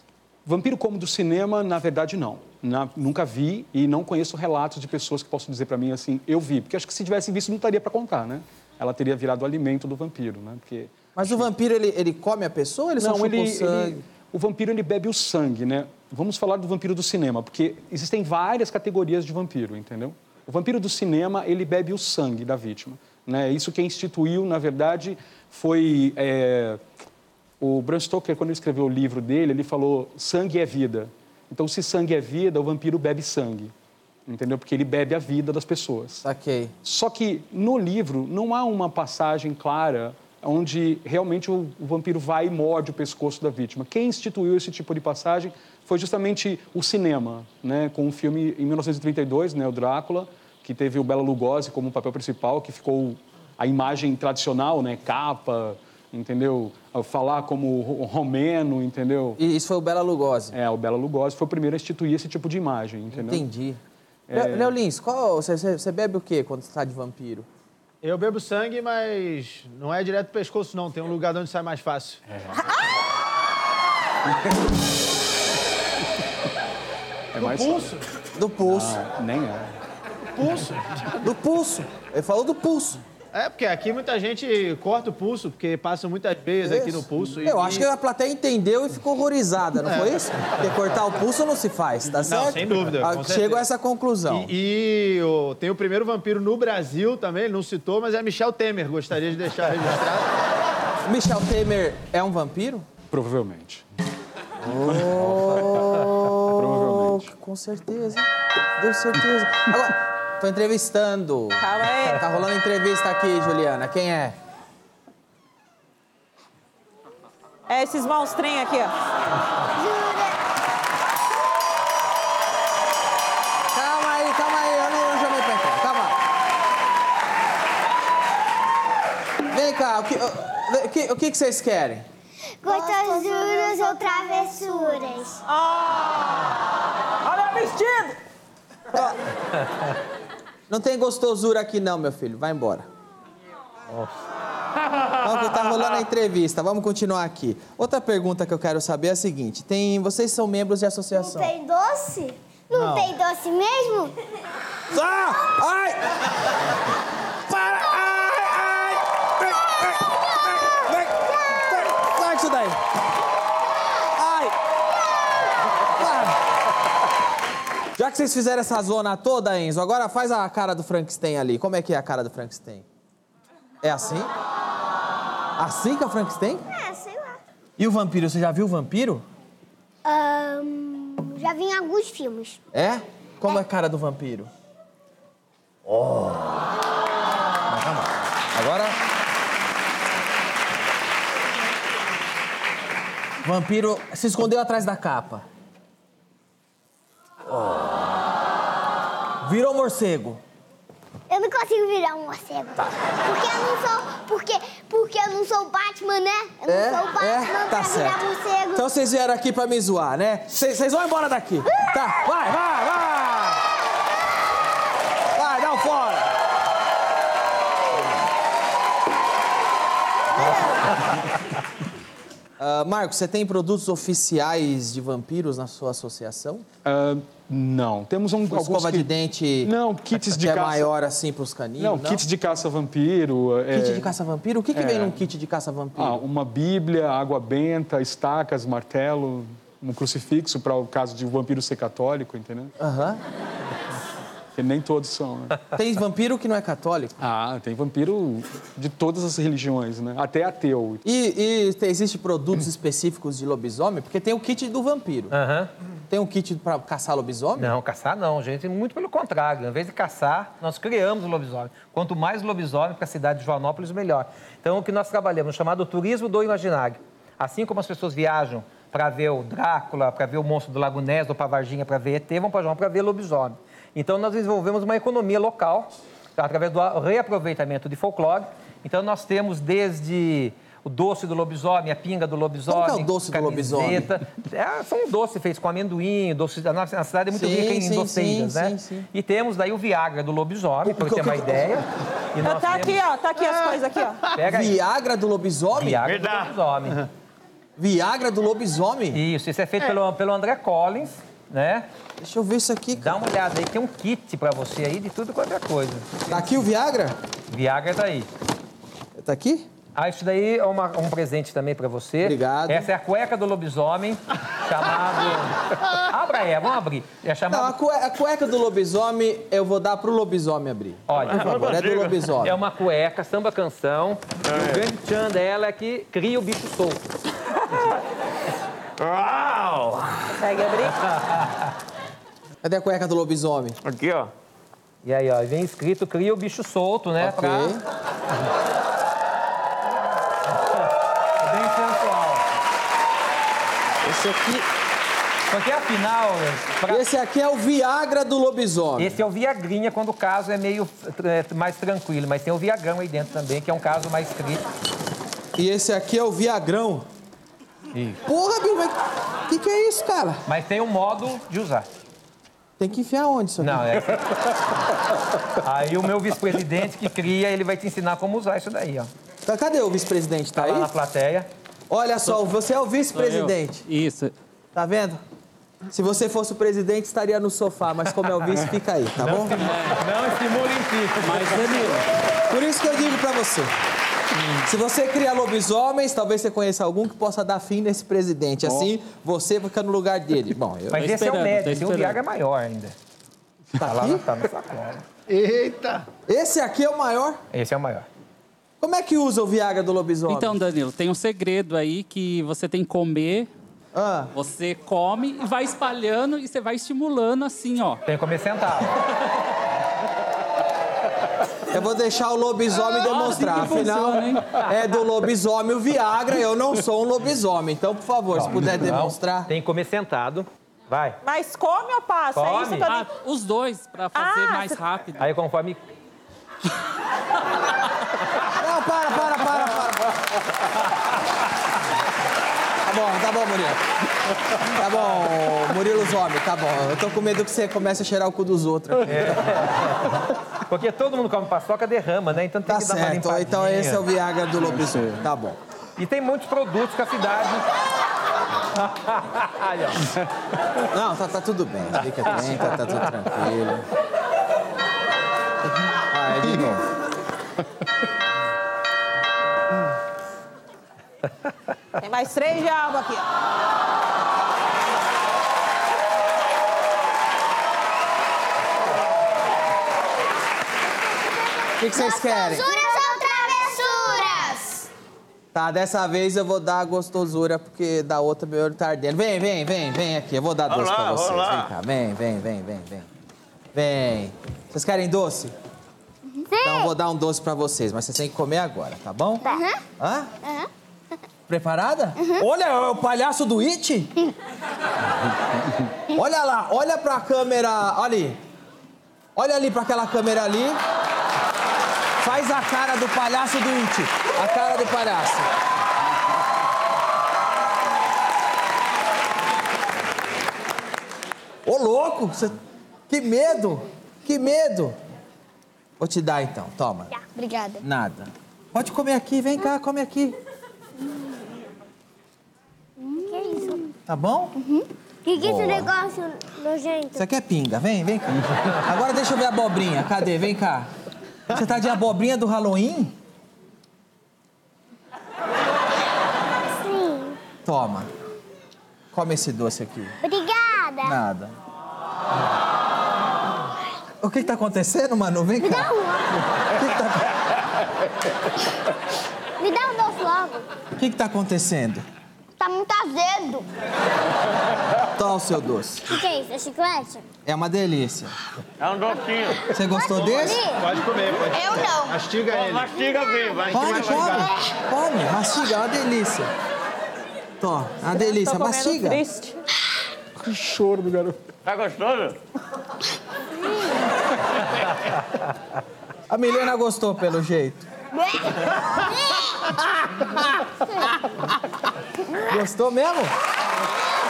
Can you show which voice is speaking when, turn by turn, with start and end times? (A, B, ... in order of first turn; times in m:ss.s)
0:00.4-0:11.5 A
0:11.2-0:14.0 B
0:13.0-0:26.8 A
0:27.6-0:33.7 A
0:34.3-0:36.2 A
0:36.2-0:36.7 B
0:36.8-0:59.4 A
0:59.4-1:00.6 B
1:00.5-1:03.4 A
1:03.1-1:03.8 B
1:04.3-1:04.7 A
1:04.3-1:07.5 B
1:08.0-1:12.2 C
1:12.3-1:12.5 A
1:17.3-1:17.9 A
1:17.4-1:18.0 C
1:18.3-1:19.0 B
1:18.6-1:19.7 A
1:20.4-1:20.9 C
1:21.2-1:23.0 B
1:23.3-1:27.9 C
1:26.6-1:34.5 B
1:29.8-1:30.2 C
1:32.2-1:33.6 C
1:34.3-1:40.4 C
1:41.0-1:42.9 B
1:43.1-1:43.8 A
1:44.6-1:54.4 B
1:44.9-1:45.8 A
1:46.5-1:47.3 A
1:51.6-1:52.2 D
1:57.7-1:58.9 D
1:59.7-2:00.4 E
2:03.7-2:06.2 B
2:09.5-2:12.0 B
2:12.6-2:15.4 E
2:12.7-2:13.2 D
2:15.5-2:16.5 D
2:17.2-2:18.2 D
2:18.9-2:19.2 B
2:20.7-2:22.9 B
2:25.2-2:31.5 B
2:31.1-2:34.1 E
2:32.7-2:33.1 B
2:34.9-2:36.2 B
2:37.5-2:42.8 B
2:44.2-2:44.5 B
2:46.0-2:46.4 B
2:48.0-2:52.8 B
2:53.8-2:54.3 B
2:55.6-2:56.6 B
2:56.7-2:57.4 E
2:57.8-2:59.2 B
3:00.0-3:02.6 E
3:02.7-3:04.5 B
3:05.8-3:06.6 B
3:07.7-3:09.0 B
3:13.4-3:15.4 B
3:17.5-3:18.0 B
3:19.4-3:20.4 B
3:21.3-3:28.8 E
3:26.6-3:28.2 B
3:28.7-3:33.6 B
3:35.3-3:36.3 B
3:40.4-3:40.9 E
3:42.6-3:46.6 B
3:46.8-3:49.1 A
3:48.5-3:49.7 B
3:49.6-3:50.9 A
3:50.2-3:52.2 B
3:51.8-3:54.1 A
3:53.7-3:56.2 B
3:54.7-3:55.2 A
3:56.0-4:02.7 A
4:02.8-4:03.2 B
4:04.5-4:05.6 A
4:05.7-4:07.1 B
4:07.2-4:11.0 A
4:11.0-4:15.3 B
4:15.3-4:15.7 F
4:16.1-4:17.7 B
4:17.6-4:53.0 F
4:42.7-4:44.1 B
4:47.3-4:49.1 B
4:50.8-4:51.8 B
4:52.4-4:54.2 D
4:54.3-4:54.7 F
4:54.4-4:56.0 B
4:55.8-4:57.0 F
4:56.0-4:56.5 G
4:57.8-4:59.2 B
4:59.1-5:01.9 F
5:02.2-5:03.2 B
5:03.0-5:06.3 F
5:06.3-5:07.2 B
5:07.5-5:08.3 F
5:09.2-5:09.6 B
5:09.9-5:17.7 F
5:12.2-5:12.9 B
5:17.5-5:22.6 B
5:21.1-5:21.7 F
5:21.2-5:22.3 G
5:22.4-5:27.0 F
5:24.5-5:24.8 G
5:29.0-5:30.3 G
5:30.4-5:31.0 D
5:31.2-5:31.5 F
5:32.6-5:33.8 B
5:33.8-5:34.3 G
5:35.0-5:37.7 F
5:37.2-5:37.8 B
5:41.4-5:42.4 F
5:44.0-5:44.6 B
5:45.5-5:47.0 F
5:46.9-5:49.2 B
5:49.0-5:54.6 F
5:55.6-5:57.0 B
5:58.2-5:59.0 B
5:59.5-6:00.4 B
6:00.4-6:01.9 F
6:02.8-6:04.0 B
6:03.6-6:04.2 F
6:05.6-6:09.1 F
6:09.4-6:10.9 B
6:10.6-6:11.5 F
6:11.9-6:13.8 B
6:13.1-6:14.3 H
6:14.7-6:15.2 B
6:15.9-6:19.6 B
6:19.5-6:21.8 F
6:19.5-6:20.0 H
6:21.2-6:22.0 H
6:22.5-6:23.7 B
6:24.6-6:31.0 B
6:30.9-6:32.9 F
6:30.9-6:32.2 H
6:33.8-6:35.0 F
6:33.9-6:34.2 B
6:35.3-6:36.0 C
6:36.3-6:37.4 B
6:37.5-6:38.0 F
6:38.8-6:40.6 B
6:40.3-6:43.5 H
6:43.9-6:44.3 B
6:44.3-6:48.0 H
6:48.0-6:49.0 F
6:51.7-6:59.5 B
6:52.8-6:54.5 H
6:58.3-7:01.2 F
7:01.2-7:03.1 D
7:02.3-7:02.9 F
7:02.9-7:05.2 H
7:04.1-7:04.8 D
7:05.2-7:05.8 F
7:08.6-7:10.1 B
7:12.8-7:13.8 B
7:14.6-7:19.6 B
7:19.0-7:24.0 F
7:22.6-7:25.6 B
7:24.6-7:25.2 A
7:26.0-7:27.7 F
7:28.7-7:30.1 F
7:30.9-7:33.8 B
7:36.1-7:36.8 B
7:42.0-7:43.3 D
7:51.8-7:53.0 B
7:51.8-7:54.9 E
7:55.5-8:03.1 B
8:00.7-8:01.7 G
8:03.7-8:05.5 B
8:06.4-8:06.9 E
8:06.6-8:10.3 B
8:09.4-8:09.8 E
8:11.5-8:14.1 B
8:16.1-8:18.4 B
8:19.4-8:20.8 B
8:22.2-8:25.5 B
8:31.6-8:35.0 B
8:36.0-8:37.1 B
8:37.1-8:37.8 E
8:37.8-8:40.4 B
8:41.0-8:41.6 E
8:43.0-8:43.9 E
8:44.1-8:44.5 B
8:44.6-8:47.2 E
8:45.4-8:45.9 B
8:47.1-8:50.9 B
8:51.5-8:53.1 B
8:56.6-8:57.4 E
8:57.6-8:58.1 B
8:59.1-9:00.2 B
9:00.2-9:01.2 E
9:01.0-9:01.5 B
9:04.2-9:05.9 B
9:05.6-9:06.3 E
9:06.7-9:07.3 B
9:09.6-9:10.7 E
9:11.0-9:12.0 B
9:12.6-9:13.7 E
9:15.2-9:16.1 B
9:16.1-9:17.2 E
9:17.4-9:18.3 B
9:18.8-9:19.7 G
9:19.7-9:20.6 B
9:19.9-9:21.0 E
9:20.7-9:22.9 C
9:21.5-9:22.2 E
9:22.5-9:24.4 G
9:23.5-9:24.5 C
9:23.7-9:26.5 B
9:27.6-9:29.2 B
9:28.1-9:29.6 D
9:30.4-9:31.4 A
9:31.6-9:32.4 G
9:36.3-9:37.9 B
9:38.3-9:39.5 E
9:42.5-9:43.3 B